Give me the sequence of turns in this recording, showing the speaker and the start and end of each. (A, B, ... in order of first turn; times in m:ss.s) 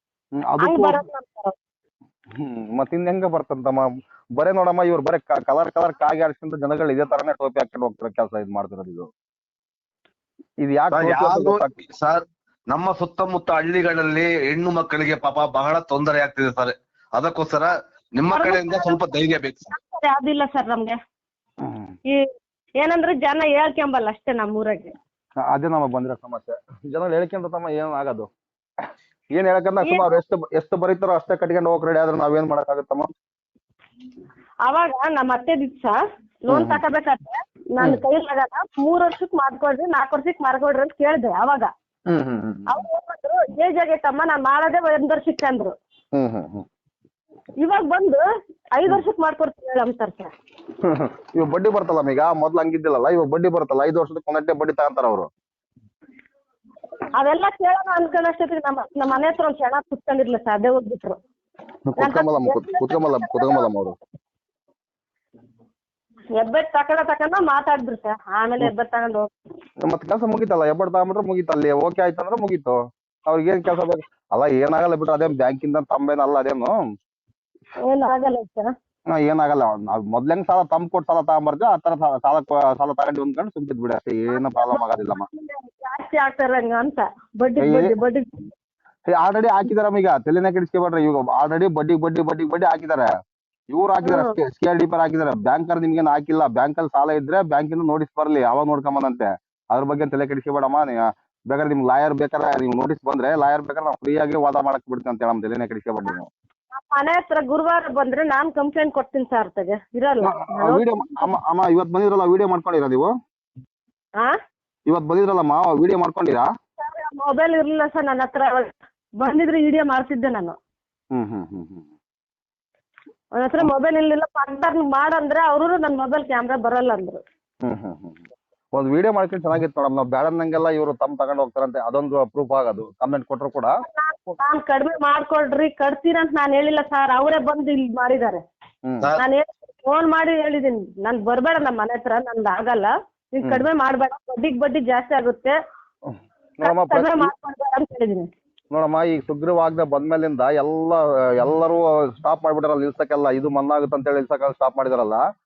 0:00.4-0:01.0 A
0:00.6-0:01.5 B
0:02.4-0:09.1 A
0:10.6-0:11.7 A
0:10.9-0:19.7 C
0:18.3-0:19.1 B
0:19.7-0:21.0 B
0:21.6-0:22.0 A
0:22.8-0:24.9 B
0:25.5-0:28.3 A
0:29.3-0:33.1 A
0:29.8-0:30.2 B
0:34.6-0:35.9 B
0:36.4-0:41.7 B
0:36.5-0:36.8 A
0:42.1-0:42.7 A
0:42.7-0:45.7 B
0:46.1-0:46.6 A
0:47.6-0:48.2 B
0:48.7-0:50.3 B
0:50.8-0:55.3 A
0:57.2-1:01.2 B
1:01.9-1:03.9 A
1:02.0-1:03.7 B
1:06.4-1:09.3 B
1:09.8-1:12.7 A
1:13.3-1:16.7 A
1:17.8-1:18.7 B
1:19.1-1:25.2 A
1:24.3-1:28.5 B
1:27.6-1:27.9 A
1:29.1-1:33.1 A
1:33.7-1:46.3 A
1:34.0-1:34.4 B
1:46.7-1:51.3 B
1:50.2-1:53.1 A
1:54.9-1:56.4 A
1:56.8-2:00.6 B
2:01.1-2:01.9 A
2:03.4-2:07.2 B
2:07.6-2:08.2 A
2:08.7-2:13.7 A
2:13.9-2:18.4 B
2:19.2-2:25.6 B
2:26.1-2:27.3 A
2:26.6-2:28.3 B
2:28.7-2:35.2 A